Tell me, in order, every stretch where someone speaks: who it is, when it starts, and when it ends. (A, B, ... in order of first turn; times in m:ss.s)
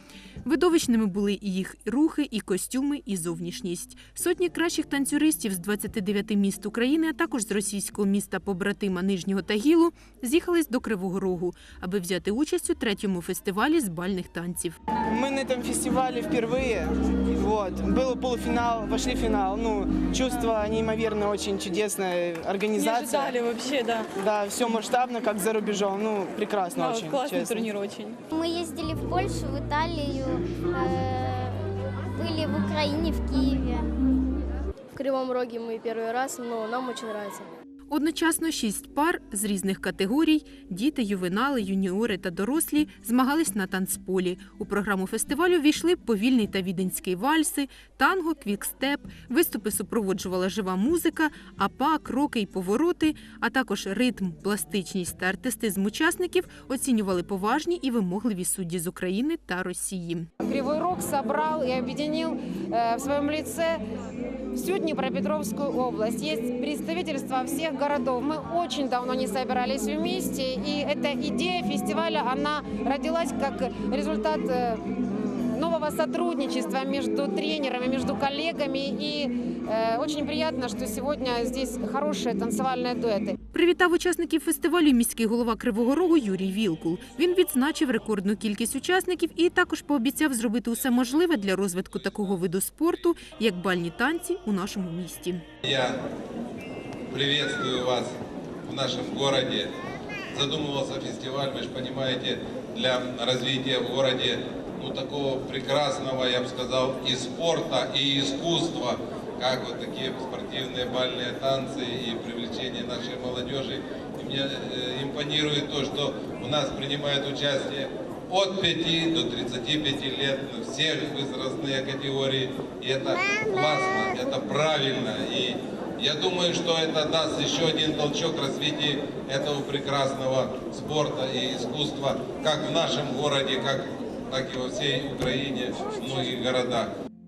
0:00.4-0:14.8 A
0:15.1-0:23.4 B
0:22.8-0:24.1 C
0:24.2-0:27.7 B
0:26.8-0:28.2 C
0:28.3-0:33.9 D
0:35.0-0:37.5 E
0:37.9-1:00.3 A
1:00.4-1:03.8 F
1:04.5-1:23.4 F
1:23.5-1:35.4 A
1:31.0-1:32.3 G
1:35.6-1:36.0 G
1:37.1-1:38.1 G
1:38.6-1:39.7 G
1:40.3-2:16.9 G